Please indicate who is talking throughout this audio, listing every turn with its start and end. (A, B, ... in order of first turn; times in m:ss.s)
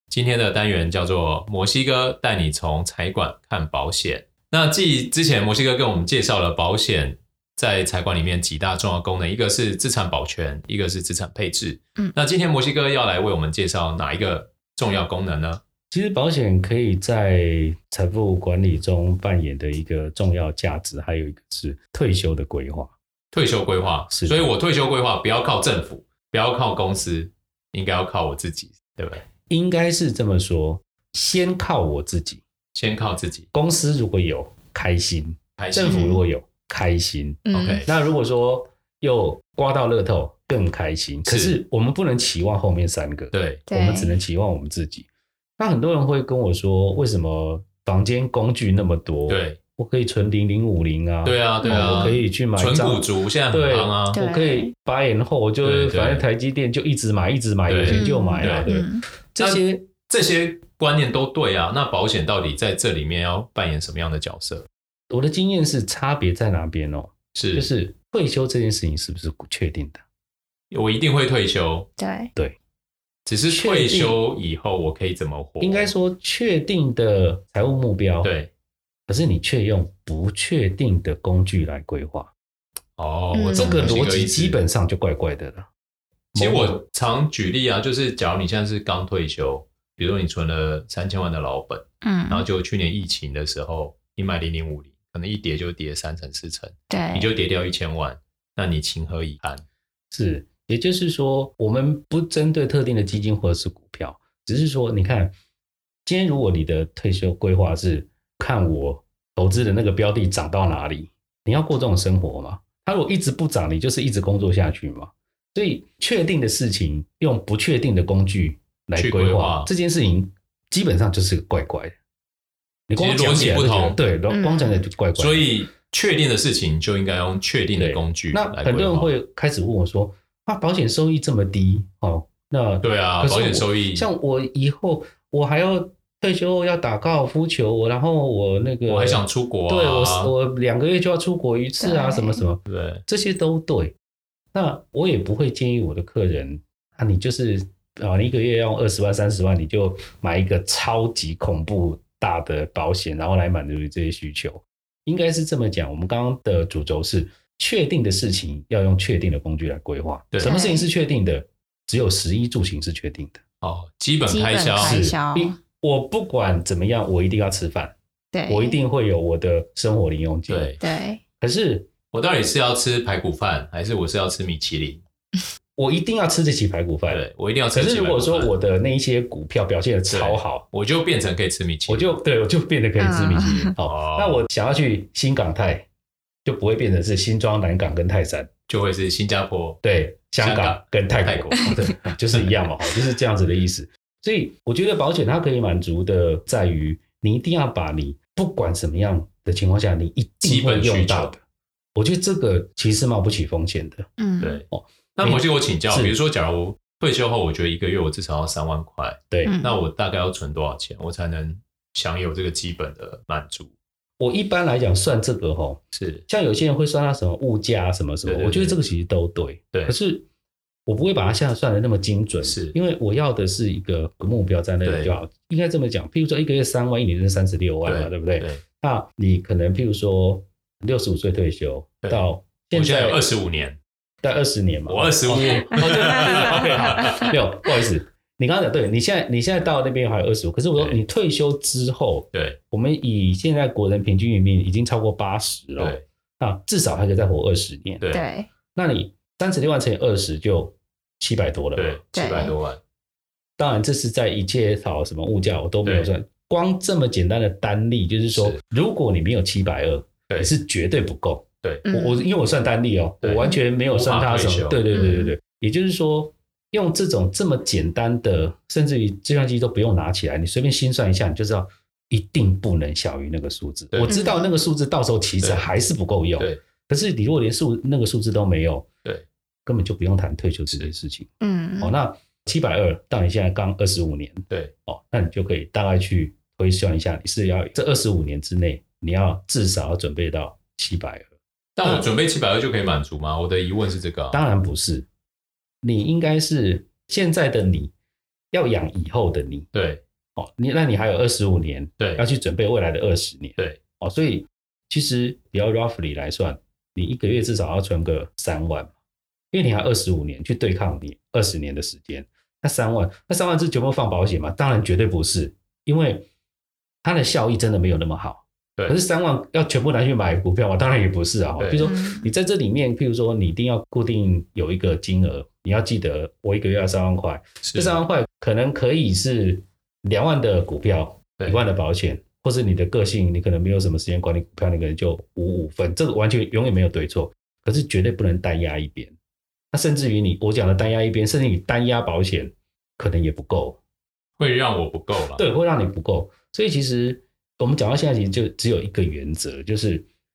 0:00.1-0:15.6 A
0:15.9-0:22.9 B
0:23.3-0:29.2 A
0:24.1-0:24.5 B
0:29.5-0:32.4 B
0:32.7-0:33.5 A
0:33.5-0:59.9 B
0:35.6-0:36.1 A
0:35.8-0:36.2 C
0:37.4-0:37.8 C
0:37.5-0:37.9 A
0:41.2-0:41.6 A
0:43.3-0:43.6 A
0:43.7-0:44.2 C
0:49.3-0:49.6 A
0:51.2-0:54.2 A
0:51.6-0:52.2 C
0:54.1-0:54.7 C
0:55.6-0:56.3 A
0:57.7-0:58.7 A
0:57.9-0:59.0 C
0:59.4-1:04.7 A
1:05.1-1:10.0 B
1:07.3-1:07.7 A
1:10.7-1:11.9 A
1:12.0-1:12.3 C
1:13.2-1:15.9 A
1:13.5-1:14.2 B
1:15.6-1:18.3 B
1:18.2-1:18.5 A
1:19.1-1:22.3 B
1:23.0-1:24.6 A
1:23.3-1:24.0 C
1:23.5-1:25.7 B
1:26.3-1:26.8 B
1:26.3-1:39.6 A
1:32.0-1:32.5 C
1:36.9-1:37.3 C
1:40.1-1:45.3 B
1:46.1-2:01.9 B
1:59.0-1:59.7 A
2:02.9-2:05.5 B
2:02.9-2:04.0 A
2:04.3-2:04.8 C
2:05.2-2:09.1 A
2:07.8-2:23.9 B
2:12.8-2:14.1 A
2:18.9-2:20.3 A
2:21.8-2:22.4 C
2:22.7-2:23.0 A
2:24.5-2:43.4 B
2:40.4-2:40.8 C
2:43.6-2:45.0 A
2:44.2-2:45.6 C
2:44.8-2:47.9 B
2:48.3-2:48.8 C
2:48.5-2:50.7 B
2:50.5-2:50.8 A
2:50.8-2:51.2 C
2:51.4-2:51.9 B
2:52.1-2:55.0 A
2:55.8-3:00.7 B
2:57.1-2:58.5 A
3:00.1-3:02.1 A
3:01.9-3:05.9 B
3:03.0-3:03.7 C
3:03.8-3:04.4 A
3:06.4-3:08.5 B
3:08.7-3:09.8 A
3:09.8-3:21.4 B
3:10.4-3:12.5 A
3:20.4-3:21.3 A
3:21.9-3:24.1 B
3:24.2-3:24.6 C
3:24.4-3:33.7 A
3:24.7-3:26.2 B
3:29.3-3:29.6 B
3:29.4-3:29.8 C
3:34.2-3:40.3 B
3:35.9-3:36.2 A
3:38.2-3:38.8 A
3:40.8-3:53.2 B
3:42.4-3:42.8 A
3:44.8-3:45.1 A
3:47.8-3:48.6 A
3:52.0-3:53.8 A
3:54.2-4:08.0 B
3:54.9-3:57.3 A
4:02.3-4:02.6 A
4:05.8-4:06.1 A
4:08.1-4:08.5 C
4:08.8-4:12.1 B
4:11.8-4:12.8 A
4:12.1-4:12.6 C
4:13.6-4:38.9 B
4:15.8-4:16.1 A
4:18.3-4:18.6 A
4:21.8-4:22.3 C
4:23.2-4:24.8 A
4:24.9-4:25.3 C
4:34.1-4:34.6 C
4:35.4-4:35.6 A
4:39.6-4:51.3 B
4:41.4-4:41.9 C
4:51.8-4:54.4 A
4:51.8-4:52.1 B
4:54.3-4:55.1 B
4:55.8-4:57.9 B
4:58.5-4:59.7 B
4:59.7-5:00.0 A
5:00.4-5:08.9 B
5:02.0-5:02.2 A
5:09.5-5:16.2 B
5:17.0-5:39.1 B
5:21.6-5:21.8 A
5:21.8-5:22.3 C
5:27.6-5:28.0 A
5:39.7-5:43.8 B
5:44.4-5:45.4 A
5:45.3-5:50.1 B